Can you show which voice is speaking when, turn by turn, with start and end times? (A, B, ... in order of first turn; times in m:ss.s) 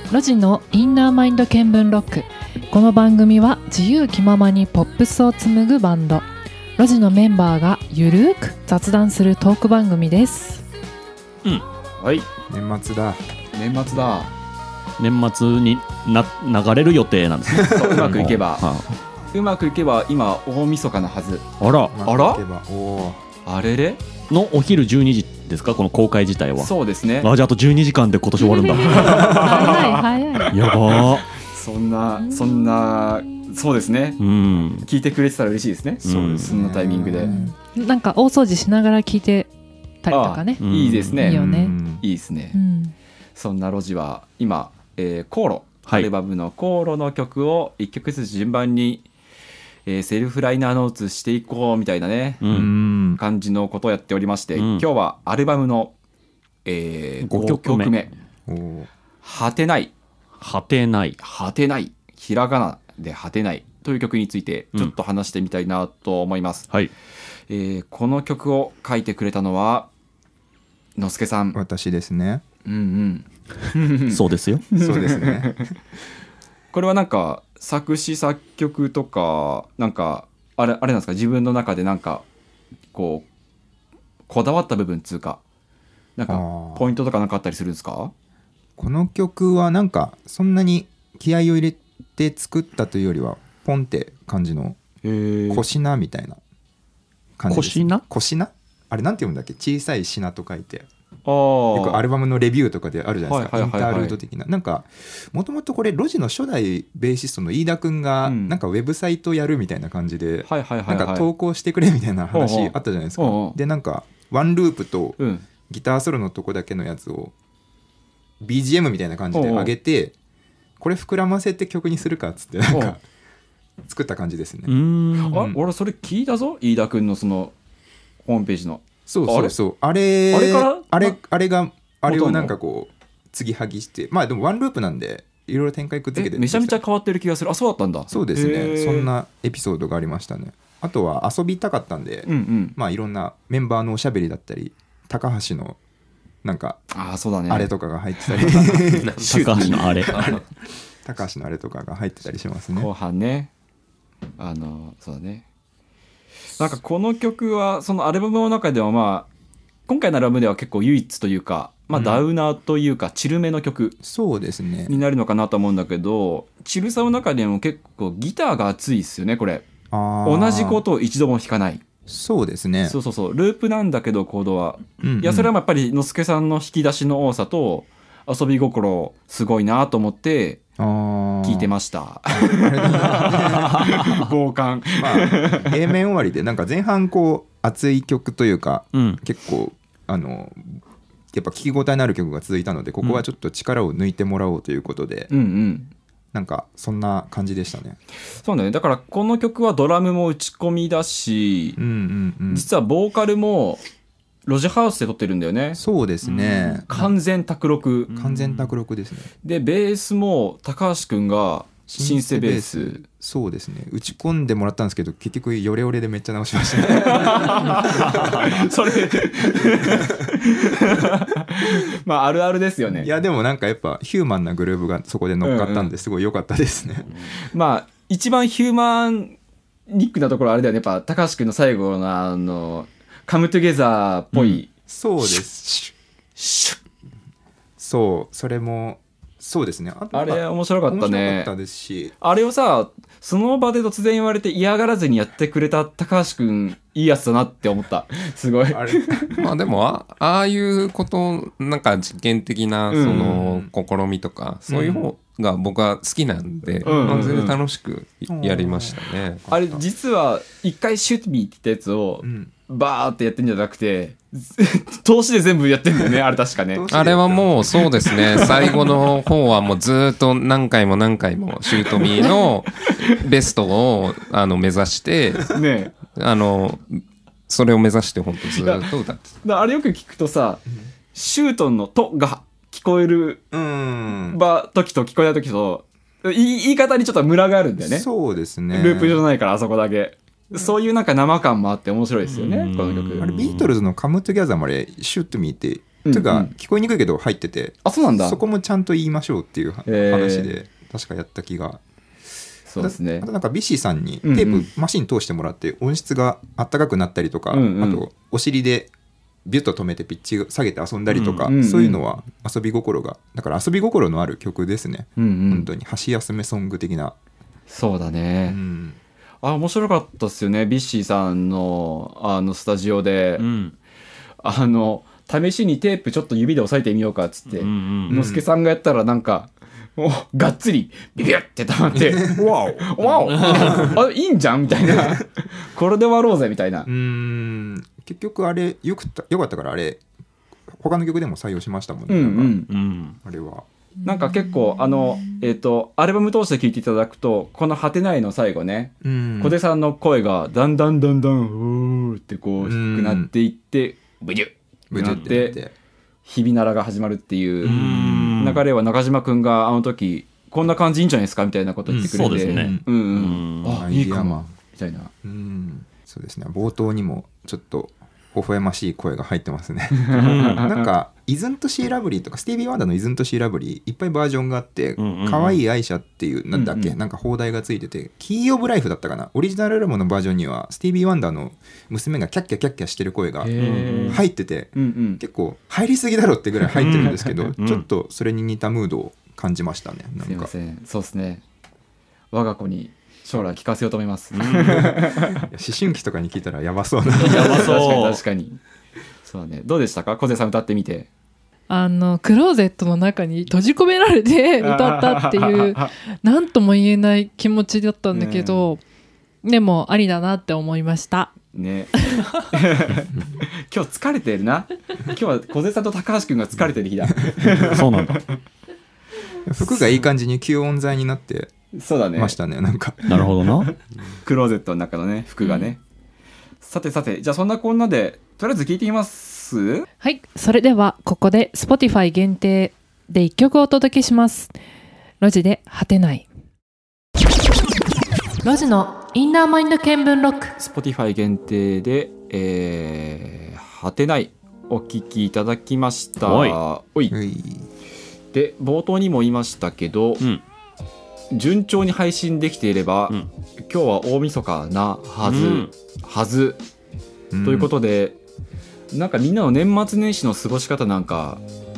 0:00.1-0:06.2 A
0:06.8-0:10.6 A
0:12.0-0:12.3 B
0:12.5-0:13.2 C
0:13.5-0:14.3 B
0:15.0-0:18.9 D
0:17.6-0:18.7 B
0:19.3-0:21.5 B
0:21.6-0:22.0 D
0:21.9-0:23.2 C
0:22.0-0:22.4 B
0:23.4-0:24.0 B
0:24.3-0:29.7 D
0:26.6-0:27.3 B
0:28.4-0:30.6 A
0:28.8-0:34.2 B
0:30.5-0:31.3 D
0:34.2-0:34.9 D
0:34.8-0:37.4 B
0:36.0-0:36.5 D
0:36.0-0:37.5 C
0:37.3-0:39.5 A
0:40.0-0:40.6 A
0:40.1-0:42.6 B
0:40.6-0:41.2 D
0:41.2-0:41.8 A
0:41.2-0:42.0 C
0:42.5-0:42.9 A
0:43.4-0:49.0 B
0:49.8-0:52.4 B
0:52.4-0:52.7 D
0:52.5-0:53.2 C
0:53.1-0:55.9 B
0:54.6-0:54.8 D
0:56.6-0:58.1 B
0:57.2-0:57.9 D
0:58.5-0:58.9 C
0:59.2-0:59.9 B
1:00.4-1:01.2 D
1:01.2-1:06.7 B
1:07.5-1:09.9 B
1:11.0-1:11.6 B
1:11.5-1:12.4 C
1:12.6-1:15.7 B
1:14.1-1:14.6 D
1:14.8-1:15.6 C
1:16.7-1:22.2 B
1:22.9-1:23.2 B
1:24.3-1:25.4 B
1:26.2-1:28.1 B
1:26.3-1:26.8 C
1:28.8-1:34.8 C
1:35.0-1:35.6 B
1:35.5-1:36.4 C
1:37.4-1:40.9 C
1:37.5-1:38.0 D
1:41.2-1:42.0 B
1:41.7-1:55.2 C
1:43.3-1:44.2 B
1:48.2-1:48.6 B
1:50.4-1:51.3 B
1:52.3-1:53.6 B
1:55.2-1:55.4 B
1:55.7-1:57.3 C
1:58.4-2:00.1 C
1:59.3-1:59.7 B
2:00.8-2:03.0 C
2:03.8-2:04.7 C
2:04.7-2:05.4 D
2:05.2-2:07.5 B
2:05.3-2:05.6 C
2:08.2-2:09.5 B
2:09.1-2:16.8 C
2:10.3-2:11.2 B
2:12.0-2:12.5 B
2:16.1-2:19.1 B
2:18.1-2:25.8 C
2:22.2-2:22.8 B
2:26.4-2:26.8 C
2:26.9-2:27.7 B
2:27.5-2:30.4 C
2:28.2-2:30.1 B
2:29.0-2:29.3 E
2:29.2-2:30.2 D
2:30.1-2:30.4 E
2:31.0-2:32.9 C
2:32.7-2:33.5 B
2:34.4-2:35.4 B
2:36.6-2:39.3 B
2:39.9-2:44.0 B
2:41.9-2:42.2 C
2:44.0-2:45.0 C
2:44.9-2:49.6 B
2:49.9-2:50.8 C
2:50.2-2:51.8 B
2:52.1-2:53.0 C
2:52.8-3:00.6 B
2:55.0-2:55.5 C
3:00.8-3:01.7 C
3:01.4-3:05.8 B
3:02.3-3:04.0 C
3:03.3-3:04.3 D
3:05.0-3:10.8 C
3:08.9-3:09.2 D
3:11.3-3:15.3 C
3:15.3-3:15.9 B
3:16.3-3:18.0 C
3:18.4-3:21.8 B
3:21.8-3:22.7 C
3:22.5-3:23.8 B
3:24.4-3:28.2 B
3:25.8-3:27.1 C
3:28.1-3:29.3 C
3:29.4-3:33.0 B
3:31.9-3:38.5 C
3:36.9-3:43.1 B
3:38.1-3:38.4 D
3:39.6-3:40.3 C
3:43.0-3:47.1 C
3:45.4-3:45.9 B
3:47.5-3:49.4 B
3:49.9-3:54.7 B
3:54.9-3:55.9 C
3:56.4-3:56.8 B
3:57.8-4:02.1 C
4:00.1-4:01.5 B
4:02.2-4:09.5 B
4:08.7-4:09.2 C
4:09.4-4:19.4 E
4:12.9-4:13.4 B
4:13.0-4:13.7 C
4:14.7-4:15.1 B
4:16.6-4:17.5 C
4:16.8-4:17.6 B
4:18.3-4:19.8 C
4:19.5-4:26.8 B
4:22.2-4:22.5 C
4:26.7-4:28.8 C
4:26.9-4:35.5 E
4:28.3-4:29.0 B
4:32.0-4:32.3 B
4:35.5-4:35.9 B
4:36.1-4:39.3 E
4:39.4-4:40.6 B
4:41.1-4:43.4 B
4:43.5-4:44.4 C
4:44.3-4:48.1 B
4:47.8-4:49.2 C
4:48.7-4:53.3 B
4:52.3-4:53.7 D
4:53.2-5:01.8 C
4:56.0-4:56.5 B
4:57.8-4:58.4 B
4:59.9-5:00.5 B
5:02.7-5:03.3 B
5:02.8-5:08.9 C
5:04.2-5:04.7 B
5:07.5-5:08.0 B
5:09.4-5:17.1 C
5:11.1-5:11.5 D
5:11.3-5:12.0 B
5:15.2-5:15.7 B
5:17.7-5:18.6 B
5:18.5-5:19.0 C
5:19.4-5:23.4 B
5:23.4-5:23.7 D
5:24.4-5:36.9 B
5:27.6-5:28.2 D
5:28.1-5:28.4 C
5:32.0-5:32.5 C
5:32.4-5:34.0 D
5:36.8-5:40.0 C
5:40.7-5:42.6 C
5:42.1-5:42.7 B
5:42.7-5:43.2 D
5:43.2-5:43.6 C
5:44.0-5:55.6 B
5:49.0-5:49.6 C
5:52.6-5:53.3 C
5:54.9-5:55.7 C
5:55.0-5:55.3 D
5:56.2-6:05.1 B
5:57.6-5:58.4 C
5:57.6-5:58.6 D
6:01.9-6:02.8 C
6:02.0-6:03.8 D
6:03.6-6:04.5 C
6:05.2-6:23.5 C
6:10.0-6:10.9 B
6:10.2-6:10.6 D
6:15.0-6:15.6 D
6:16.5-6:17.0 B
6:23.4-6:24.2 B
6:23.6-6:24.2 D
6:24.1-6:30.5 C
6:24.7-6:25.2 B
6:26.7-6:27.8 D
6:26.9-6:27.2 B
6:30.2-6:31.4 B
6:32.3-6:35.4 B
6:34.3-6:34.9 D
6:34.7-6:37.8 C
6:37.2-6:38.6 B
6:37.2-6:38.2 D
6:39.2-6:41.1 B
6:41.7-6:48.8 A
6:44.6-6:45.9 B
6:48.1-6:48.6 B
6:49.4-6:51.3 A
6:51.5-6:58.4 B
6:57.5-6:58.2 D
6:59.4-7:01.5 C
7:01.7-7:02.4 B
7:02.2-7:03.3 C
7:03.1-7:03.7 D
7:04.2-7:05.8 B
7:05.4-7:05.7 A
7:06.6-7:09.9 B
7:10.0-7:14.5 A
7:15.2-7:16.2 A
7:18.4-7:20.6 A
7:20.6-7:27.2 B
7:26.2-7:26.6 D
7:27.1-7:27.7 C
7:28.3-7:30.2 B
7:31.3-7:36.6 B
7:35.1-7:35.7 D
7:37.3-7:37.7 C
7:37.4-7:38.2 B
7:38.9-7:41.4 B